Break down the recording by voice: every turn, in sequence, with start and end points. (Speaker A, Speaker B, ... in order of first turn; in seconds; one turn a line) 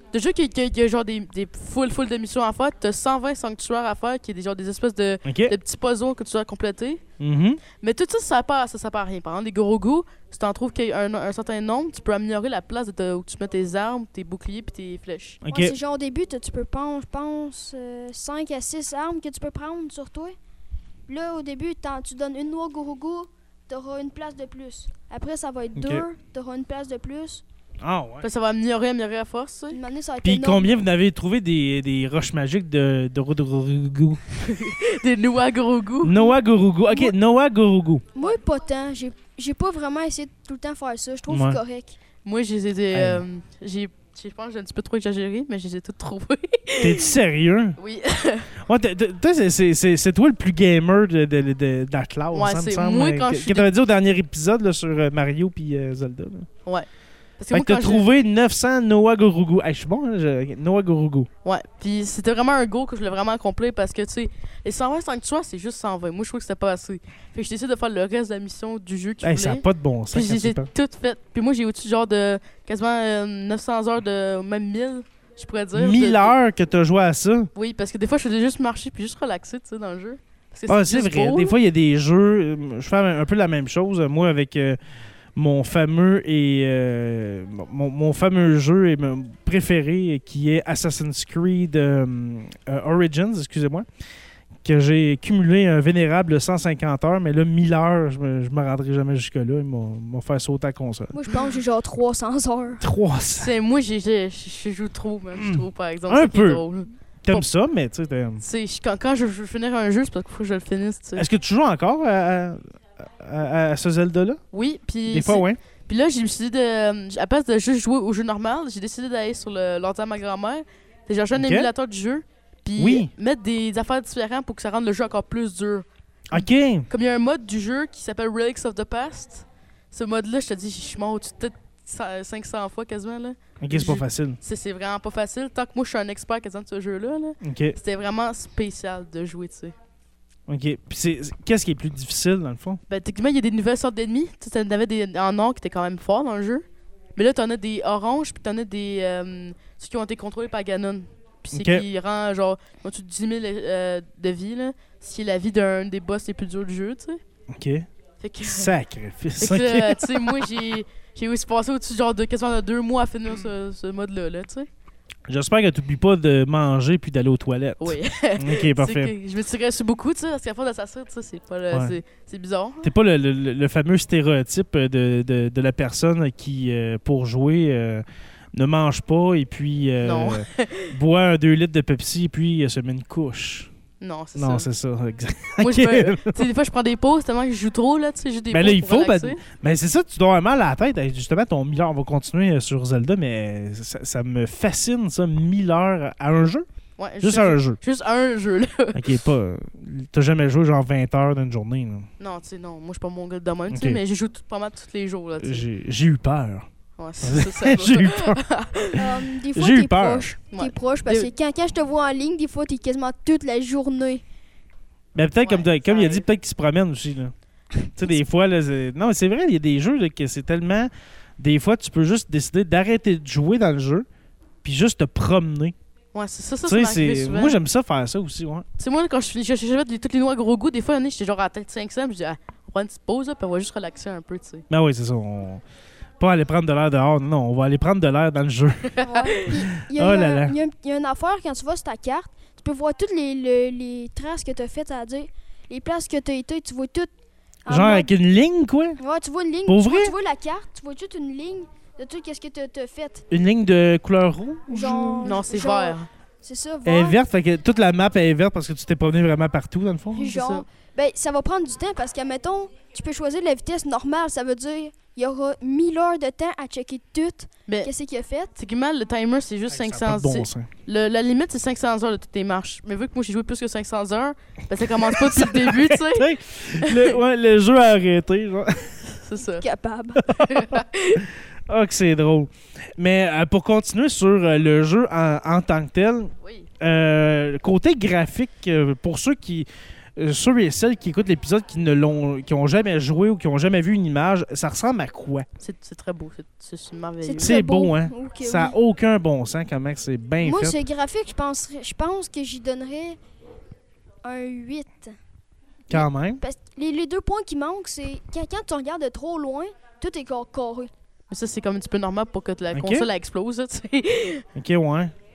Speaker A: 0.1-7.0
Speaker B: 5.2-5.5
Speaker B: 7.2-7.6
Speaker A: 7.8-15.4
Speaker B: 15.4-15.8
Speaker C: 15.5-20.4
Speaker C: 21.1-27.4
Speaker B: 25.8-26.1
Speaker B: 27.8-28.3
Speaker A: 28.2-29.8
Speaker C: 29.7-30.8
Speaker B: 30.2-34.2
Speaker A: 34.4-36.3
Speaker B: 36.0-38.0
Speaker C: 38.1-42.0
Speaker B: 41.3-41.6
Speaker A: 42.2-47.1
Speaker B: 42.9-43.2
Speaker B: 46.8-47.8
Speaker A: 47.8-48.6
Speaker B: 48.6-56.5
Speaker A: 52.3-53.7
Speaker A: 57.4-58.1
Speaker B: 57.5-61.3
Speaker A: 61.4-76.3
Speaker B: 69.2-70.7
Speaker B: 75.8-77.5
Speaker A: 77.5-81.6
Speaker B: 80.7-84.8
Speaker B: 85.4-93.9
Speaker B: 94.6-101.2
Speaker C: 101.1-102.8
Speaker B: 102.8-103.5
Speaker A: 103.4-107.5
Speaker B: 105.3-106.6
Speaker B: 107.2-108.4
Speaker A: 108.4-111.3
Speaker B: 111.2-114.4
Speaker A: 114.5-139.8
Speaker B: 115.1-115.6
Speaker B: 121.3-121.7
Speaker B: 122.8-123.1
Speaker B: 126.3-126.9
Speaker B: 133.6-134.4
Speaker B: 137.4-137.8
Speaker B: 140.5-142.8
Speaker A: 142.9-146.7
Speaker A: 147.2-157.2
Speaker B: 151.5-151.9
Speaker B: 157.5-157.9
Speaker A: 158.2-158.7
Speaker B: 158.4-160.3
Speaker A: 159.4-164.7
Speaker B: 165.3-169.1
Speaker A: 167.8-172.9
Speaker B: 171.7-172.0
Speaker B: 172.8-183.7
Speaker A: 180.0-180.9
Speaker A: 184.0-184.7
Speaker B: 184.4-186.4
Speaker A: 185.6-189.4
Speaker B: 188.5-196.7
Speaker A: 197.0-199.1
Speaker B: 197.2-197.8
Speaker B: 198.9-202.1
Speaker A: 202.2-205.7
Speaker B: 203.7-204.0
Speaker B: 205.4-206.7
Speaker A: 207.0-209.0
Speaker B: 207.2-208.4
Speaker C: 209.0-214.2
Speaker B: 209.5-210.3
Speaker A: 210.5-211.3
Speaker B: 215.2-217.3
Speaker A: 215.4-216.3
Speaker B: 217.9-224.1
Speaker B: 224.6-225.8
Speaker A: 226.1-227.6
Speaker B: 226.7-228.7
Speaker A: 228.8-234.7
Speaker B: 234.7-235.6
Speaker B: 236.2-238.9
Speaker A: 238.9-239.5
Speaker C: 239.0-247.1
Speaker B: 239.5-240.6
Speaker C: 247.7-248.1
Speaker B: 247.7-249.0
Speaker C: 249.0-253.2
Speaker B: 249.7-250.2
Speaker B: 253.3-255.3
Speaker C: 254.7-257.2
Speaker A: 255.2-256.1
Speaker B: 256.9-260.3
Speaker C: 260.1-268.5
Speaker A: 260.2-260.6
Speaker A: 268.6-277.2
Speaker B: 269.7-270.7
Speaker B: 275.0-279.1
Speaker A: 279.2-279.6
Speaker C: 279.6-280.3
Speaker B: 280.2-295.5
Speaker A: 280.4-281.3
Speaker A: 286.4-286.7
Speaker A: 295.6-297.6
Speaker C: 297.2-298.8
Speaker B: 297.4-300.8
Speaker C: 300.4-303.2
Speaker C: 304.2-305.1
Speaker B: 305.9-306.4
Speaker C: 305.9-310.9
Speaker A: 311.3-314.4
Speaker B: 312.7-313.1
Speaker B: 314.6-315.1